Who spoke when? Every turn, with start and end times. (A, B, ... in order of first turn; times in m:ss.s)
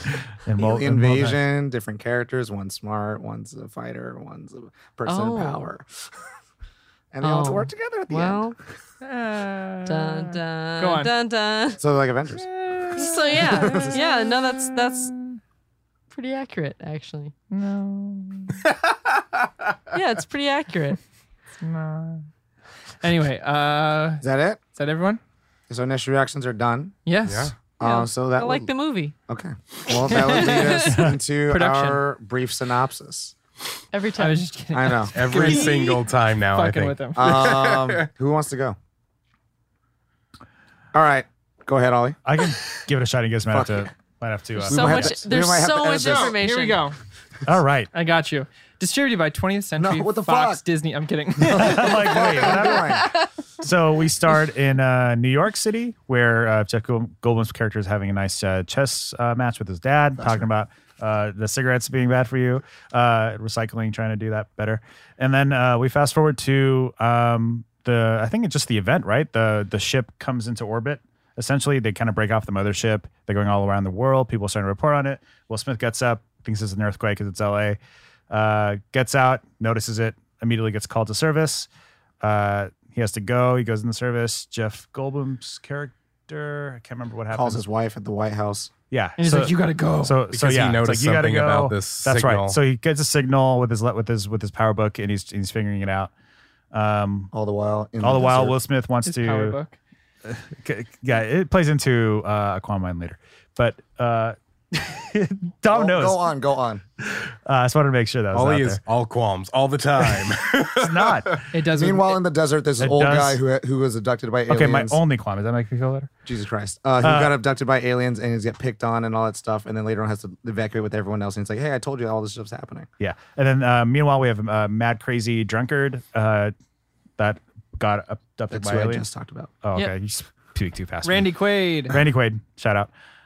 0:00.3-0:01.4 A
0:00.6-0:06.1 B
0:05.0-0:05.6 C
0:07.1-0:08.5 B
0:07.2-0:08.5 C
0:09.0-0:11.1 D
0:09.8-0:11.8 C
0:11.8-0:12.5 B
0:12.4-0:15.4 D
0:12.9-0:15.1 C
0:13.3-0:14.0 B
0:16.1-0:17.3 C
0:17.5-0:18.7 D
0:19.9-0:21.0 C
0:21.6-0:22.3 D
0:23.0-0:25.2 D
0:24.2-0:24.6 B
0:25.7-0:26.9 B
0:27.0-0:27.5 D
0:27.2-0:27.5 E
0:27.8-0:28.7 B
0:27.8-0:29.1 C
0:29.3-0:33.3 B
0:30.1-0:32.0 D
0:30.1-0:30.9 C
0:33.9-0:34.5 C
0:34.2-0:37.3 D
0:34.7-0:35.7 B
0:35.1-0:38.1 E
0:37.2-0:38.8 B
0:40.9-0:42.2 B
0:42.2-0:45.2 A
0:43.5-0:43.9 B
0:44.6-0:46.4 B
0:44.6-0:46.9 C
0:46.0-0:47.0 D
0:47.4-0:47.9 A
0:47.9-0:52.5 D
0:49.8-0:50.6 B
0:51.4-0:53.1 B
0:51.4-0:53.0 A
0:53.6-1:17.8 A
1:00.2-1:00.4 B
1:18.3-1:21.7 A
1:22.2-1:27.6 A
1:27.3-1:28.7 B
1:28.9-1:36.1 A
1:29.2-1:30.3 D
1:30.3-1:32.6 E
1:36.7-1:37.3 A
1:37.3-1:38.6 B
1:38.0-1:39.6 A
1:39.0-1:39.8 D
1:40.2-1:46.2 A
1:45.7-1:46.8 B
1:47.0-1:48.8 A
1:48.3-1:51.4 E
1:50.2-1:51.4 A
1:51.5-1:52.2 D
1:51.7-1:55.0 B
1:52.8-1:53.4 A
1:54.5-1:56.1 A
1:56.2-2:02.9 B
1:57.0-1:57.3 A
2:03.0-2:06.5 A
2:07.2-2:09.0 A
2:08.5-2:09.5 B
2:09.6-2:11.3 A
2:11.0-2:12.0 D
2:11.9-2:12.9 A